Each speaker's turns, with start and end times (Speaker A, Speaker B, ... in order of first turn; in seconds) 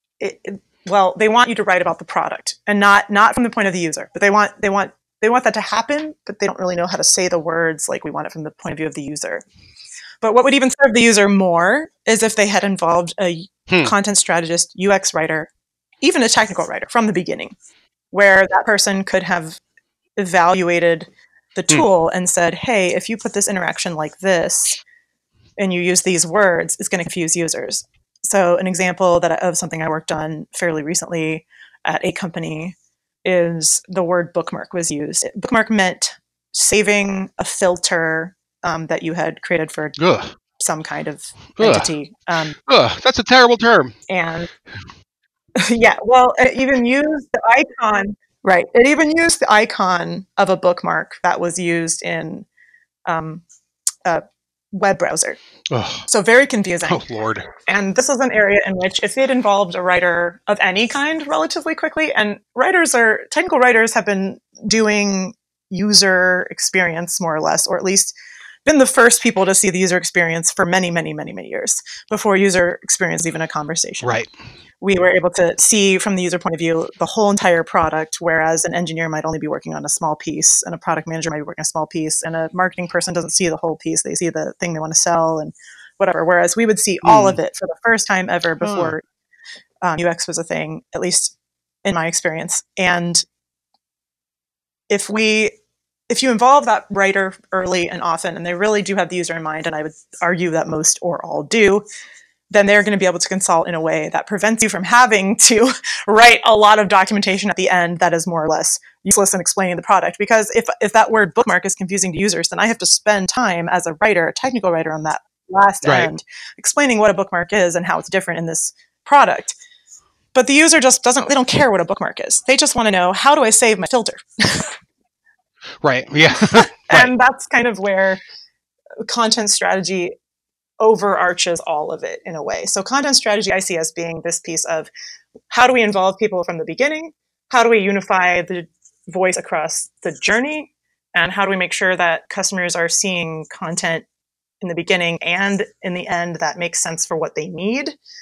Speaker A: 0.2-9.4, 10.2-15.5, 16.0-17.6, 18.1-19.6, 20.2-24.8, 25.6-40.0, 40.6-42.6, 44.1-44.5, 45.5-52.5, 53.1-53.4, 54.0-55.4, 56.1-57.0, 57.7-68.2, 68.7-74.2, 74.8-89.0, 89.8-93.2, 94.9-95.5, 96.1-101.8, 102.5-119.6, 120.3-124.8, 126.3-128.2, 129.0-130.2, 130.8-134.9, 135.5-144.1, 144.6-148.0
Speaker B: 40.0-40.3, 41.6-41.9, 42.7-44.0, 55.7-56.1, 56.9-57.5, 74.0-74.3, 87.0-87.4, 88.6-88.9, 115.8-116.1, 125.8-127.1